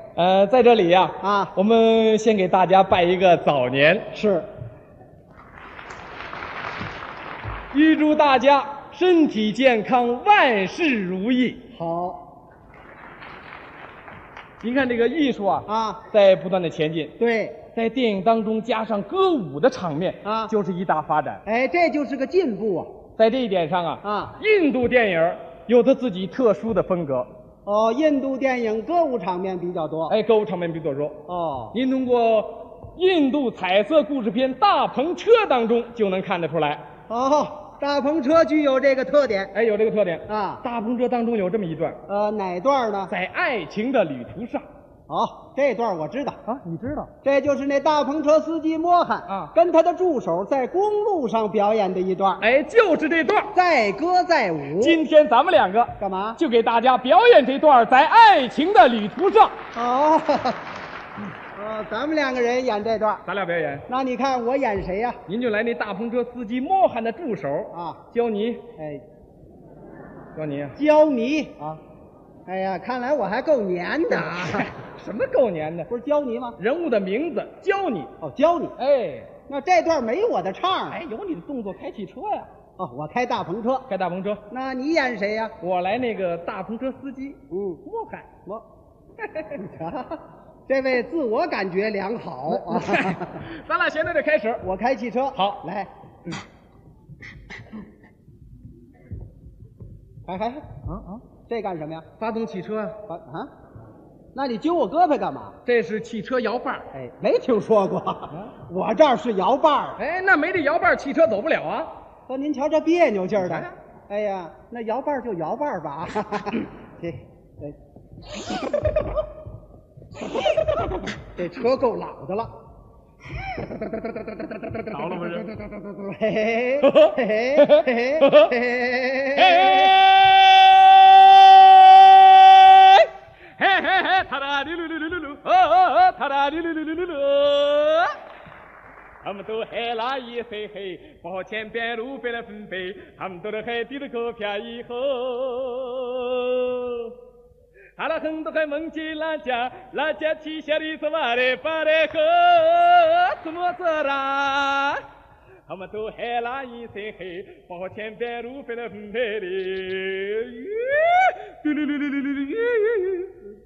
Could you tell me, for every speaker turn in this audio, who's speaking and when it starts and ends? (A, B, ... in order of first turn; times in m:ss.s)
0:00.2-0:04.1 A
0:01.2-0:01.5 B
0:04.1-0:04.5 B
0:07.7-0:11.6 A
0:11.7-0:12.2 B
0:14.6-0:17.1 A
0:15.7-0:16.0 B
0:17.2-0:17.6 B
0:17.8-0:21.4 A
0:20.2-0:20.5 B
0:21.4-0:22.9 B
0:23.2-0:27.3 A
0:24.0-0:24.4 B
0:27.7-0:30.2 B
0:30.1-0:31.2 A
0:31.3-0:31.8 B
0:31.7-0:36.8 A
0:37.1-0:39.5 B
0:39.5-0:42.0 A
0:40.3-0:40.6 B
0:42.1-0:43.1 B
0:43.1-0:44.7 A
0:45.1-0:46.4 B
0:46.5-0:47.1 A
0:47.2-0:52.4 B
0:49.3-0:49.5 A
0:52.4-0:53.5 A
0:53.5-0:55.0 B
0:54.8-0:59.6 A
0:56.0-0:56.4 B
0:59.8-1:00.7 B
1:01.6-1:03.2 B
1:03.2-1:03.8 A
1:03.9-1:05.2 B
1:05.3-1:08.6 A
1:07.7-1:08.0 B
1:08.8-1:09.0 B
1:10.4-1:10.8 A
1:10.8-1:11.8 B
1:12.5-1:14.7 B
1:14.1-1:15.9 A
1:15.9-1:16.6 B
1:16.6-1:18.1 A
1:18.2-1:18.8 B
1:18.8-1:19.3 A
1:19.5-1:21.0 B
1:20.9-1:22.5 A
1:22.8-1:23.9 B
1:23.9-1:24.4 A
1:24.5-1:25.6 B
1:25.6-1:28.3 A
1:27.5-1:27.8 B
1:29.2-1:29.6 A
1:29.6-1:33.4 B
1:32.5-1:34.6 A
1:34.6-1:35.9 B
1:35.4-1:35.6 A
1:40.3-1:40.6 B
1:40.9-1:41.2 A
1:41.5-1:42.1 B
1:42.2-1:43.0 A
1:43.1-1:43.5 B
1:44.3-1:45.6 B
1:45.7-1:46.9 A
1:46.9-1:50.0 B
1:50.0-1:51.9 A
1:52.3-1:57.8 B
1:53.4-1:53.7 A
1:58.4-1:59.1 B
2:00.5-2:02.5 B
2:03.4-2:10.0 B
2:04.9-2:05.5 A
2:06.8-2:08.6 A
2:09.4-2:18.2 A
2:19.2-2:27.1 A
2:28.0-2:35.0 A
2:35.7-2:43.4 A